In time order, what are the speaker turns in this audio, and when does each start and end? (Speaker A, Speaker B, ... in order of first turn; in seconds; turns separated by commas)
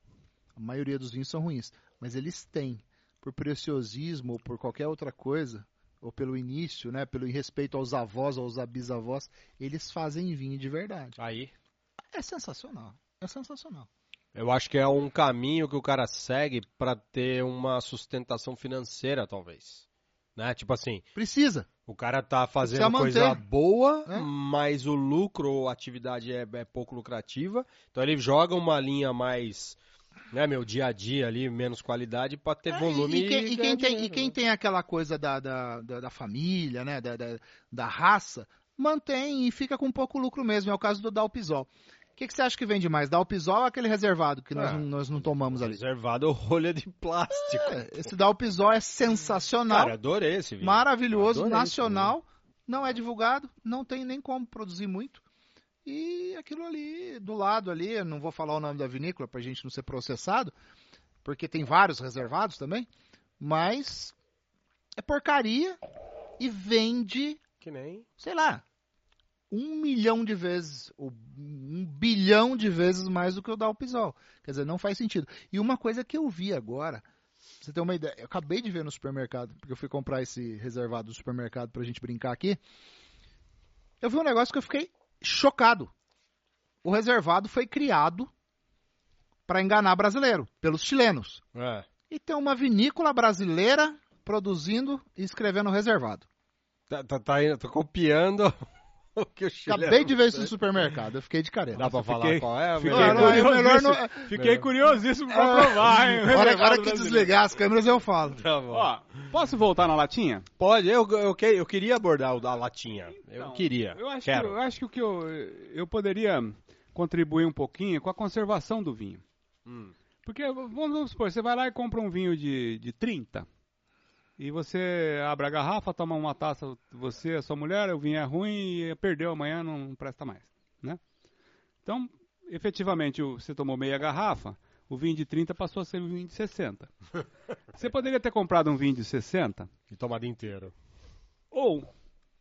Speaker A: 0.6-11.2, Speaker B: 11.2-11.5, Speaker A: 12.1-13.9, Speaker B: 14.3-19.8, Speaker B: 20.4-21.1, Speaker A: 21.1-21.7, Speaker B: 21.9-29.8, Speaker A: 22.6-23.4, Speaker B: 30.3-34.4, Speaker A: 32.7-45.8, Speaker B: 44.5-44.9, Speaker B: 45.5-48.1, Speaker A: 47.3-50.0, Speaker B: 49.7-52.1, Speaker A: 50.6-55.2, Speaker A: 55.8-60.5, Speaker A: 61.2-62.9, Speaker A: 63.4-64.1, Speaker A: 65.0-65.8, Speaker A: 66.4-67.4, Speaker B: 67.6-68.0, Speaker A: 68.2-68.6, Speaker A: 69.5-77.0, Speaker A: 77.6-82.6, Speaker A: 84.0-85.9, Speaker A: 86.8-88.3, Speaker A: 89.5-91.4, Speaker B: 91.5-91.9, Speaker A: 92.1-96.3, Speaker B: 96.9-98.6, Speaker B: 99.1-100.5, Speaker A: 99.7-101.8, Speaker B: 101.7-103.6, Speaker C: 101.8-107.3, Speaker A: 102.8-104.3, Speaker B: 104.3-104.7, Speaker A: 105.3-108.4, Speaker B: 108.3-108.9, Speaker C: 108.7-110.5, Speaker B: 110.6-114.6, Speaker C: 113.2-119.2, Speaker B: 119.7-119.9, Speaker C: 120.2-123.5, Speaker C: 124.4-131.0, Speaker C: 131.8-136.9, Speaker C: 137.7-139.7, Speaker B: 139.9-140.8, Speaker C: 141.5-141.9